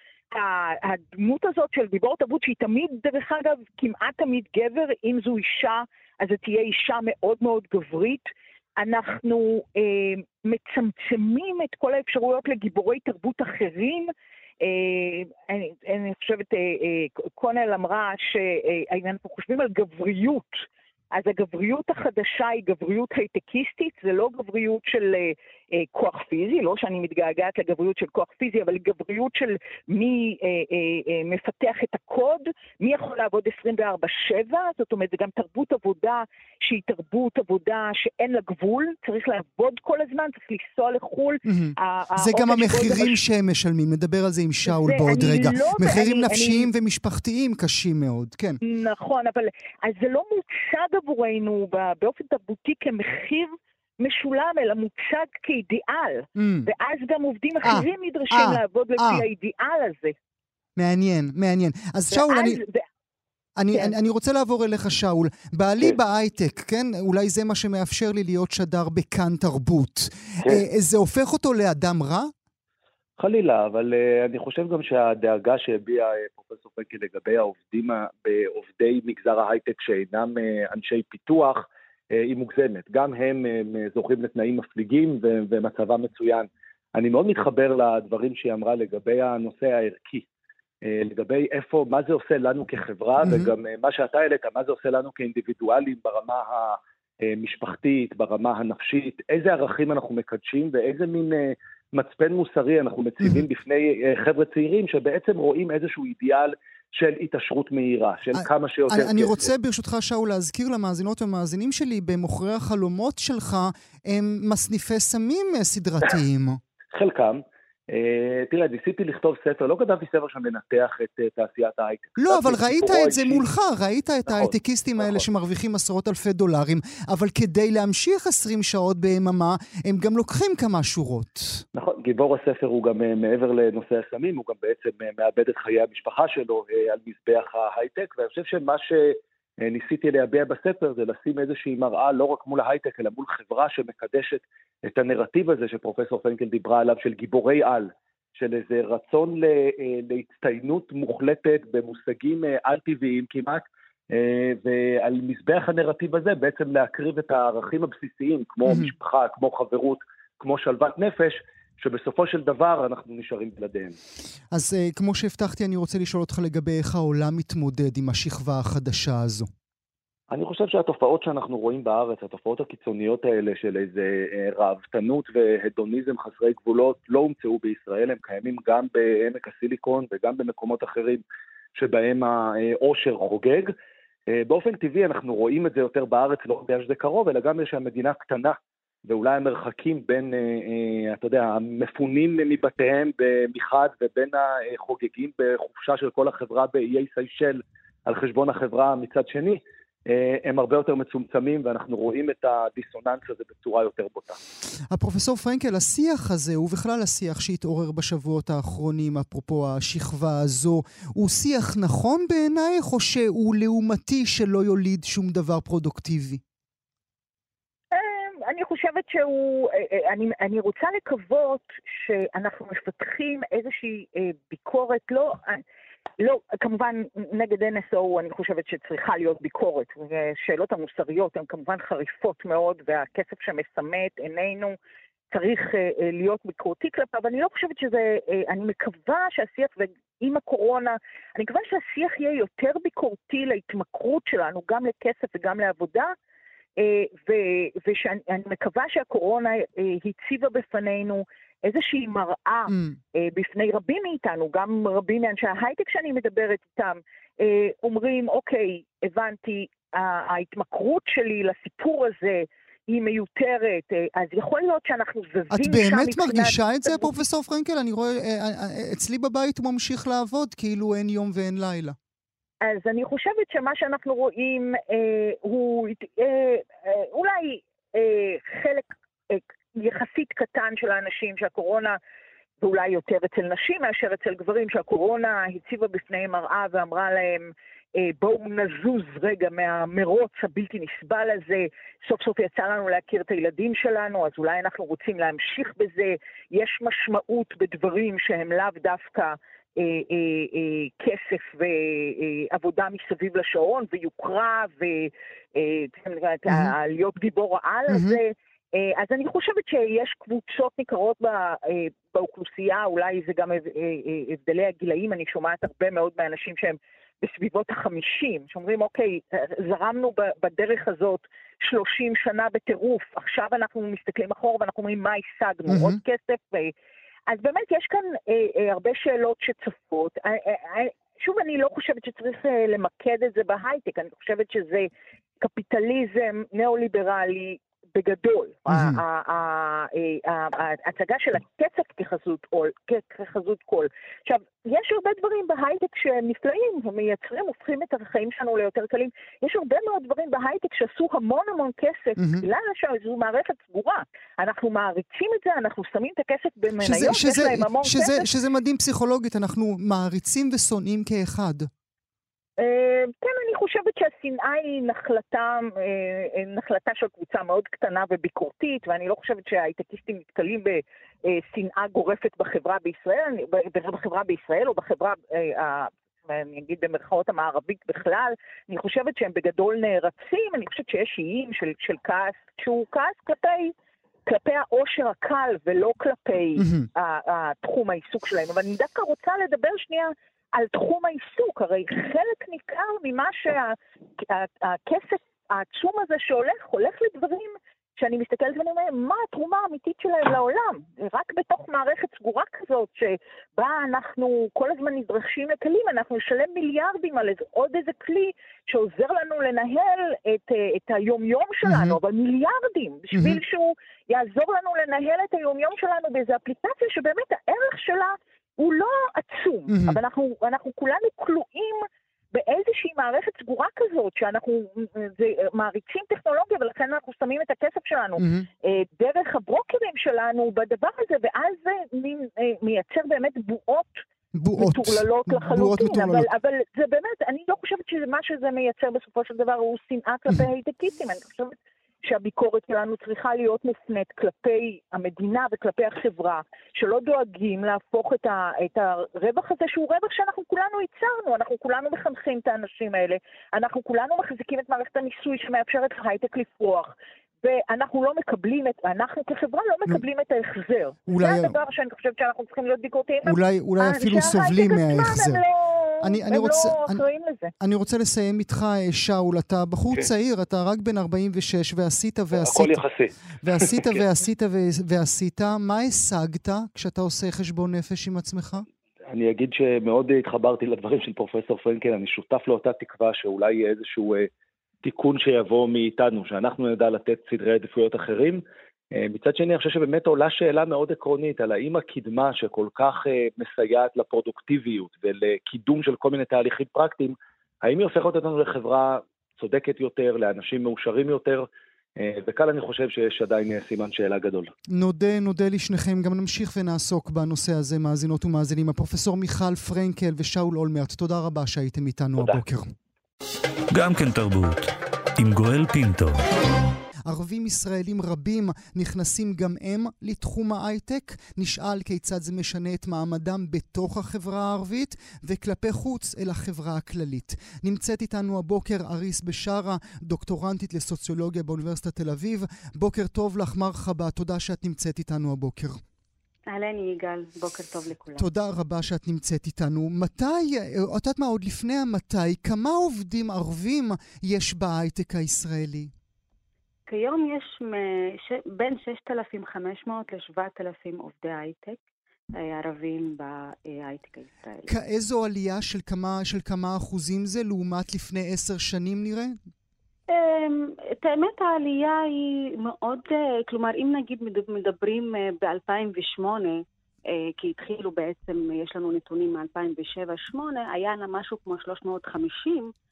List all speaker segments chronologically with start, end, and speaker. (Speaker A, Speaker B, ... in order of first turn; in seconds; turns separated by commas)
Speaker A: 0.3-43.2, Speaker B: 41.5-48.6, Speaker A: 44.6-46.7, Speaker A: 48.6-60.1, Speaker B: 56.4-56.7, Speaker B: 57.6-59.2, Speaker B: 60.8-62.6, Speaker A: 62.1-62.8, Speaker B: 63.6-72.3, Speaker C: 73.2-90.2, Speaker C: 90.8-109.5, Speaker B: 93.2-93.5, Speaker B: 108.3-116.6, Speaker C: 116.9-123.4, Speaker B: 122.2-131.6, Speaker C: 124.2-125.2, Speaker C: 131.7-163.9, Speaker B: 164.5-169.5, Speaker C: 170.3-181.2, Speaker C: 181.7-183.7, Speaker C: 184.3-204.4, Speaker B: 204.9-216.4, Speaker A: 217.9-225.6, Speaker A: 226.2-234.8, Speaker A: 235.3-246.1, Speaker A: 246.8-267.2, Speaker B: 252.7-252.9, Speaker B: 265.5-271.9, Speaker A: 272.6-282.0, Speaker A: 282.6-326.7, Speaker B: 307.9-308.2, Speaker B: 325.7-326.0, Speaker A: 327.3-358.2, Speaker B: 338.7-339.0, Speaker B: 352.2-352.4, Speaker B: 356.8-361.7, Speaker A: 362.6-383.7, Speaker A: 384.2-434.0, Speaker B: 386.6-386.9, Speaker B: 411.6-412.0, Speaker B: 413.1-413.4, Speaker B: 419.7-420.0, Speaker B: 428.2-428.5, Speaker B: 434.4-436.3, Speaker A: 434.6-467.5, Speaker B: 461.1-461.6, Speaker B: 463.2-465.4, Speaker B: 466.0-467.0, Speaker B: 467.6-472.8, Speaker C: 472.3-474.0, Speaker B: 473.4-478.6, Speaker C: 479.1-484.3, Speaker C: 484.8-504.5, Speaker B: 504.7-512.7, Speaker D: 513.7-516.2, Speaker B: 517.1-535.8, Speaker E: 536.5-538.3, Speaker B: 538.2-545.9, Speaker E: 546.9-551.8, Speaker E: 552.4-554.7, Speaker B: 554.7-559.4, Speaker E: 560.1-572.7